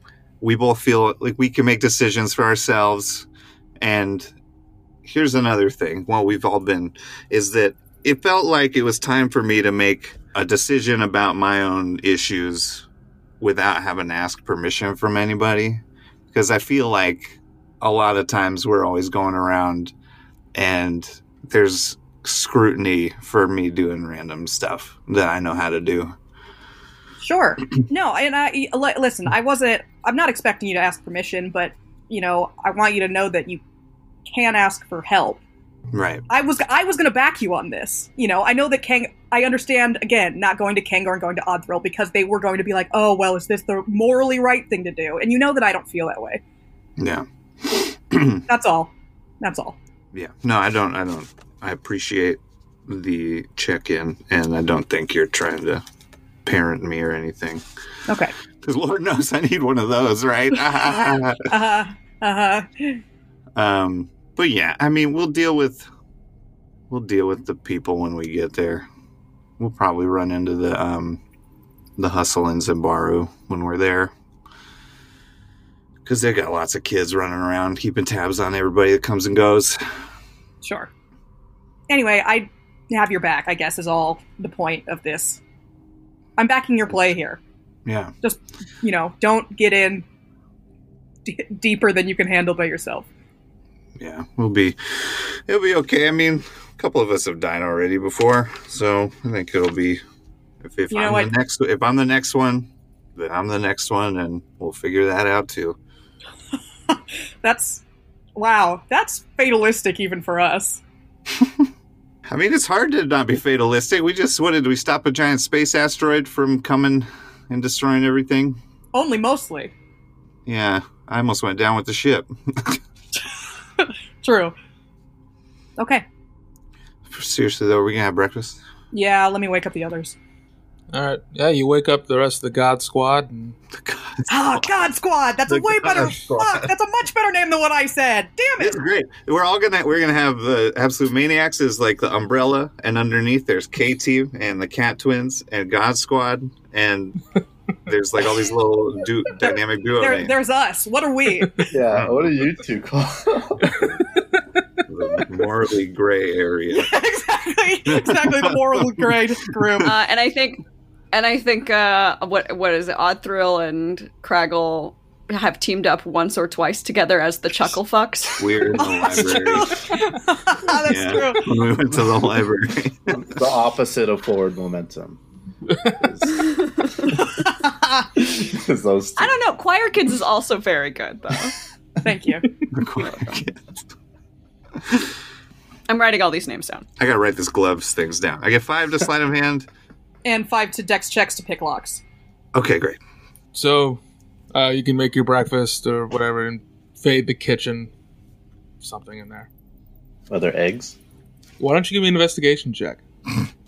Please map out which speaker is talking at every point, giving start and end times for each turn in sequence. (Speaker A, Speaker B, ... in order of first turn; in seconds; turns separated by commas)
Speaker A: 0.4-3.3, Speaker A: 3.8-4.3, Speaker A: 5.0-12.8, Speaker A: 13.4-19.9, Speaker A: 20.5-26.1, Speaker B: 27.2-33.6, Speaker B: 34.3-35.4, Speaker A: 35.9-36.2, Speaker B: 36.3-46.4, Speaker A: 47.0-48.4, Speaker B: 48.5-49.8, Speaker A: 50.1-55.8, Speaker A: 56.4-57.6, Speaker B: 58.1-58.3, Speaker A: 58.6-61.4, Speaker B: 60.6-63.0, Speaker A: 63.5-65.9, Speaker A: 66.9-68.9, Speaker A: 69.6-71.2, Speaker A: 72.0-74.1, Speaker A: 76.0-79.8, Speaker B: 80.6-80.9, Speaker B: 81.9-85.4, Speaker B: 86.4-87.4, Speaker A: 87.8-88.1, Speaker B: 88.2-90.0, Speaker B: 91.2-93.1, Speaker A: 94.0-100.0, Speaker A: 100.6-105.8, Speaker B: 100.9-101.3, Speaker B: 106.9-107.8, Speaker B: 108.3-110.8, Speaker A: 112.2-118.6, Speaker B: 118.9-119.7, Speaker A: 120.5-122.8, Speaker B: 123.8-124.5, Speaker B: 125.8-126.0, Speaker A: 127.1-128.6, Speaker B: 128.9-130.2, Speaker C: 130.9-133.6, Speaker A: 133.8-134.6, Speaker B: 134.3-138.8, Speaker A: 135.5-136.7, Speaker A: 138.6-147.2, Speaker A: 147.8-150.3, Speaker B: 149.5-151.7, Speaker D: 151.7-153.8, Speaker A: 151.9-152.3, Speaker A: 154.9-156.9, Speaker B: 156.7-159.9, Speaker A: 157.9-158.6, Speaker E: 159.8-168.4, Speaker A: 168.4-169.7, Speaker B: 168.8-171.5, Speaker A: 170.8-173.2, Speaker D: 173.1-175.2, Speaker D: 176.0-177.2, Speaker D: 178.2-179.4, Speaker E: 179.2-181.5, Speaker B: 182.0-182.5, Speaker A: 182.7-183.8, Speaker E: 183.0-183.3, Speaker E: 185.9-186.8, Speaker A: 187.0-189.7, Speaker B: 190.2-192.0, Speaker A: 192.5-193.0, Speaker C: 193.5-194.0, Speaker C: 194.5-197.9, Speaker C: 198.8-199.5, Speaker D: 200.3-200.9, Speaker C: 201.6-203.0